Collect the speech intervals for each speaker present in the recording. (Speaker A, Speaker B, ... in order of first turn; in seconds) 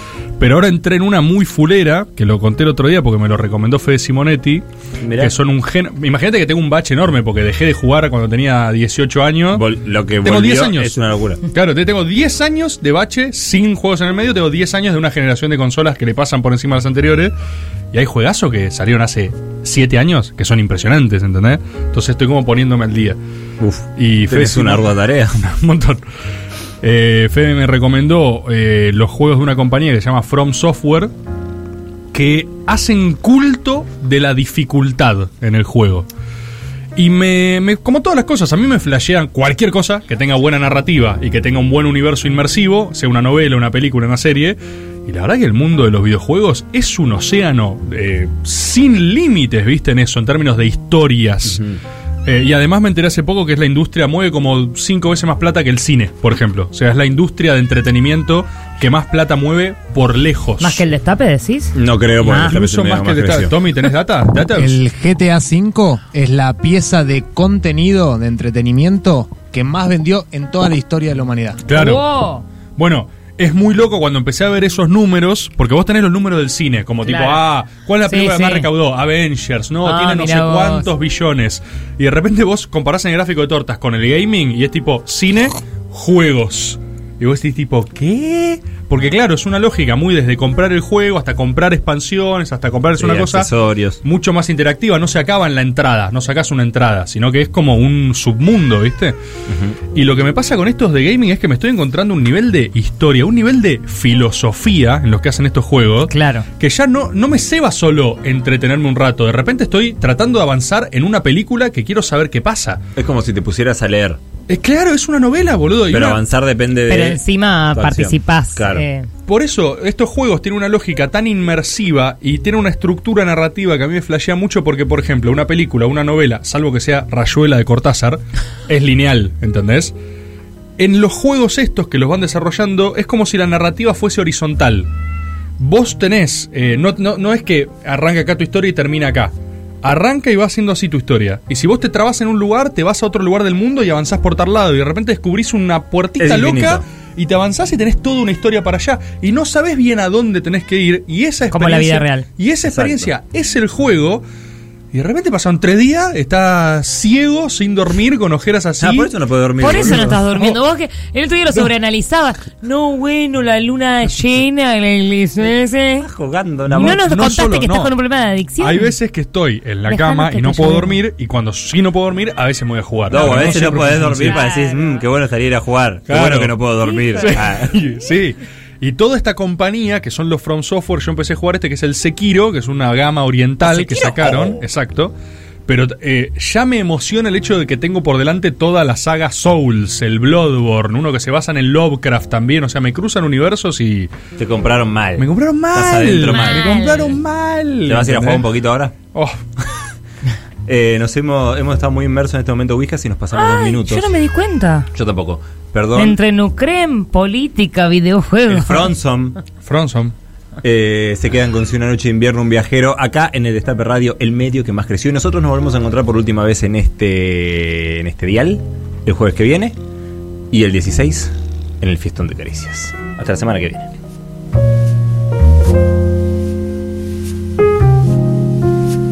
Speaker A: 0.4-4.6, 5.2-9.6, 10.2-10.9, 11.5-17.3, 17.9-23.2, 24.0-26.0, 26.8-31.1, 32.1-36.1, 37.0-51.6, 52.2-60.8, 62.4-64.8, 71.7-72.0, 72.8-93.5, 94.0-99.2, 99.9-112.8, 114.5-116.2, 119.3-129.9, 130.8-134.9, 135.6-154.2, 154.9-160.6, 166.7-167.9, 168.6-174.4, 176.1-185.1, 185.7-194.1, 195.2-198.4, 209.6-210.1
Speaker B: 5.0-5.3, 9.5-11.4, 23.6-25.4, 51.4-51.8, 61.7-63.5, 93.0-94.0, 99.5-99.8, 113.0-114.2, 115.9-117.2, 117.7-118.8, 146.2-146.8, 152.6-153.1, 158.8-160.2, 166.0-167.0, 173.1-177.8, 183.6-184.6, 194.4-196.7, 197.8-198.9, 200.7-204.1, 204.9-206.2, 208.5-209.4, 210.6-219.8, 220.5-223.9
Speaker C: 60.6-62.6, 71.7-72.4, 77.0-77.4, 78.0-78.7, 79.8-80.9, 106.1-106.5, 116.9-119.1, 151.5-152.2, 159.6-166.1, 166.7-168.9, 169.9-170.9, 173.1-175.1, 176.8-177.5, 196.3-197.2, 203.3-204.9, 205.9-208.9
Speaker D: 64.5-71.6